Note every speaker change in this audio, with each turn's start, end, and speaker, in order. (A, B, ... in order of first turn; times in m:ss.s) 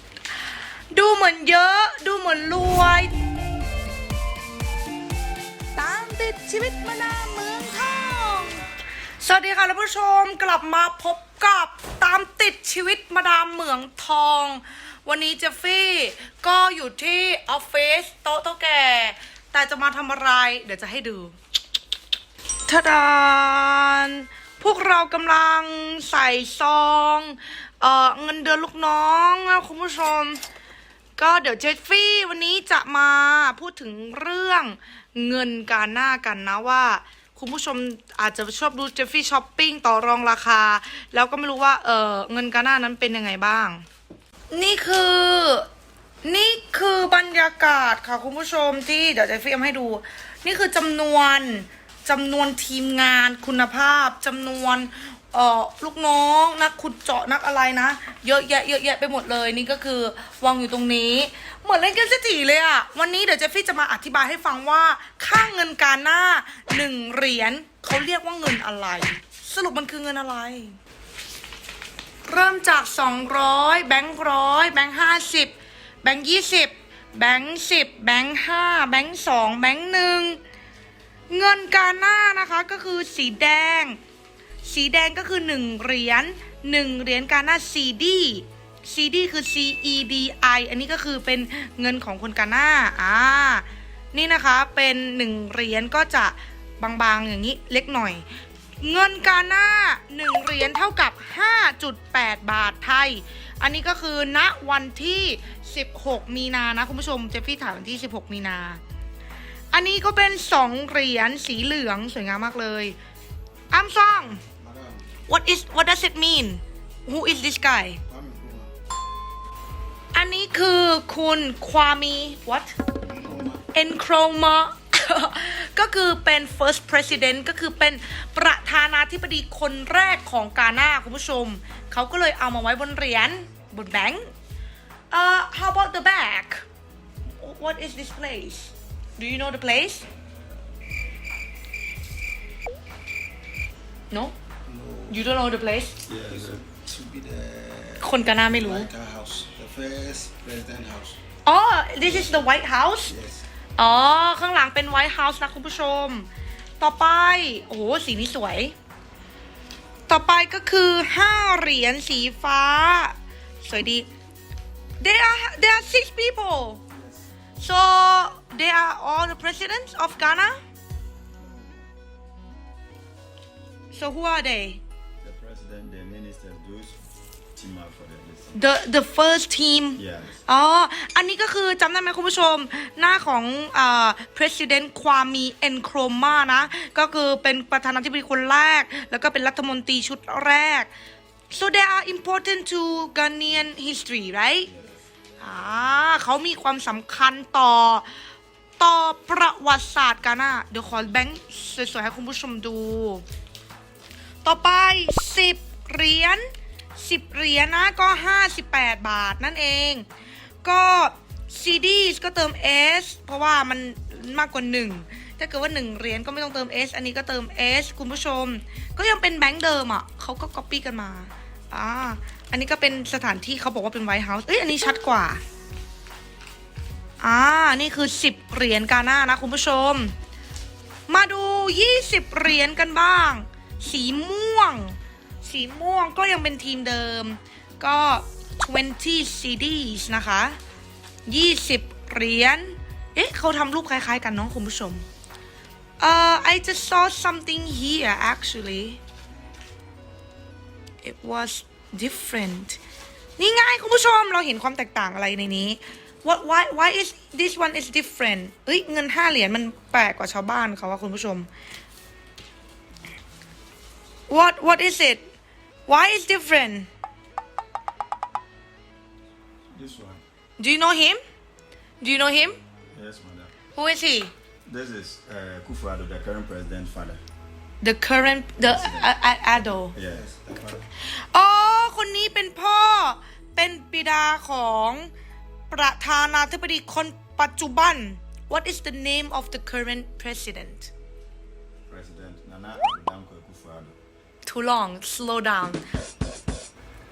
0:00.9-0:03.1 A
0:05.7-0:08.7 A
0:09.2-0:21.3 A
0:22.6-0:30.4 A
0:31.2-0:43.8 A
0:44.5-0:45.7 A
0:46.2-1:10.8 A
1:12.2-1:15.5 A
1:16.0-1:20.4 A
1:21.3-1:24.0 A
1:24.6-1:38.2 A
1:38.8-1:48.8 A
1:49.7-1:53.0 A
1:53.7-1:54.4 A
1:54.6-1:55.0 B
1:55.3-1:58.0 A
1:58.1-1:58.7 B
2:00.1-2:02.7 A
2:03.0-2:03.6 B
2:03.7-2:14.3 A
2:15.1-2:16.6 A
2:17.4-2:20.0 A
2:24.7-2:25.2 B
2:25.1-2:26.0 A
2:26.0-2:26.6 C
2:26.3-2:31.2 B
2:28.0-2:28.9 A
2:31.4-2:33.1 A
2:33.1-2:33.4 B
2:33.8-2:36.3 A
2:36.8-2:38.7 A
2:40.1-2:44.1 A
2:45.0-2:46.8 A
2:47.6-2:50.6 A
2:53.9-2:54.8 A
2:55.2-2:58.6 C
2:58.5-3:10.9 A
3:00.0-3:00.4 C
3:11.5-3:14.7 A
3:15.4-3:18.1 A
3:18.8-3:23.2 A
3:24.4-3:26.4 A
3:27.0-3:30.0 A
3:30.6-3:45.4 A
3:47.2-3:50.1 A
3:51.1-4:00.6 A
4:01.2-4:05.0 A
4:06.0-4:09.0 A
4:11.0-4:12.8 A
4:13.4-4:21.5 A
4:24.3-4:25.2 A
4:25.9-4:26.9 A
4:29.7-4:30.2 C
4:30.6-4:31.2 A
4:32.0-4:32.6 A
4:32.9-4:33.5 C
4:33.7-4:34.3 A
4:34.6-4:37.2 C
4:37.8-4:39.9 A
4:38.6-4:39.1 C
4:39.9-4:40.3 C
4:40.1-4:40.8 B
4:41.1-4:45.1 A
4:45.7-4:50.9 A
4:51.9-4:54.0 C
4:54.4-4:55.8 A